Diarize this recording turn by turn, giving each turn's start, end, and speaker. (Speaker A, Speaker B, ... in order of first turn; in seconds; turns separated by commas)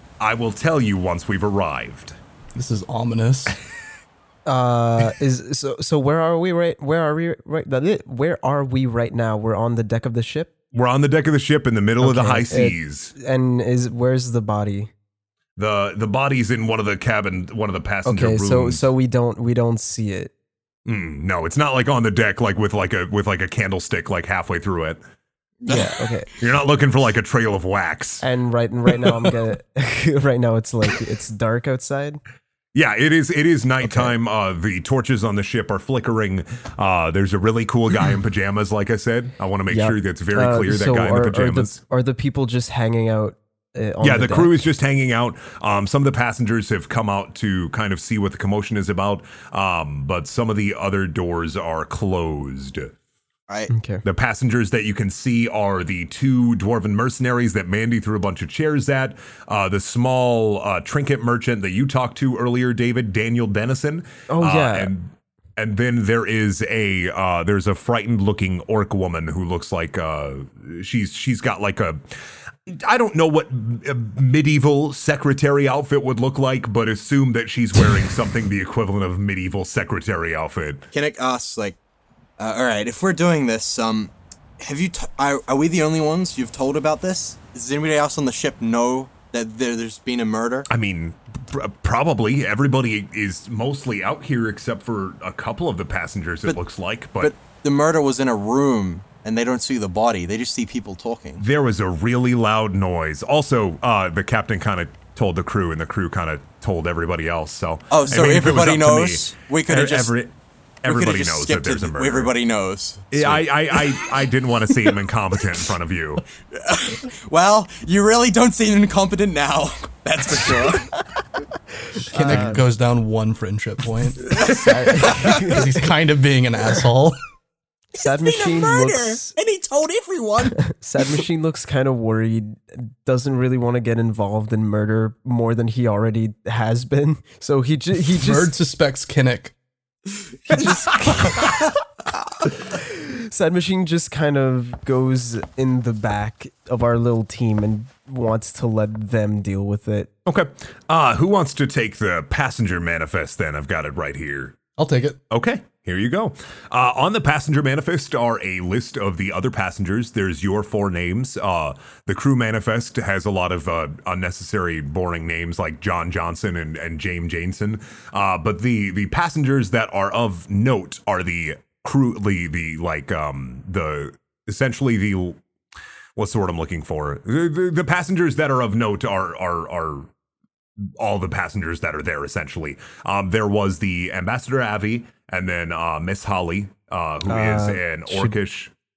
Speaker A: 0.2-2.2, Speaker B: 2.5-3.5, Speaker C: 4.5-10.5, Speaker A: 10.7-13.1, Speaker C: 12.0-14.9, Speaker A: 15.6-18.8, Speaker C: 18.0-20.3, Speaker A: 20.9-25.0, Speaker D: 25.6-26.1, Speaker C: 25.7-26.3, Speaker A: 26.4-28.2, Speaker C: 28.2-32.2, Speaker A: 32.7-41.8, Speaker C: 33.8-34.1, Speaker C: 39.7-44.6, Speaker A: 44.0-52.9, Speaker C: 53.7-54.0, Speaker A: 54.0-72.1, Speaker C: 64.3-64.9, Speaker A: 72.7-80.9, Speaker D: 80.9-81.8, Speaker D: 82.4-90.7, Speaker A: 90.7-97.3, Speaker D: 97.2-101.4, Speaker A: 101.4-112.3, Speaker D: 107.9-110.1, Speaker D: 110.8-114.1, Speaker A: 113.1-116.2, Speaker D: 116.5-121.0, Speaker C: 122.0-122.6, Speaker B: 122.1-127.2, Speaker C: 124.4-125.7, Speaker D: 127.9-130.6, Speaker C: 128.0-129.3, Speaker C: 130.6-138.5, Speaker B: 138.2-139.5, Speaker C: 140.5-141.7, Speaker A: 140.5-140.8, Speaker C: 142.4-150.1, Speaker A: 150.2-154.6, Speaker B: 154.8-155.2, Speaker A: 155.3-175.4, Speaker A: 176.2-180.1, Speaker A: 181.0-188.7, Speaker C: 187.3-188.4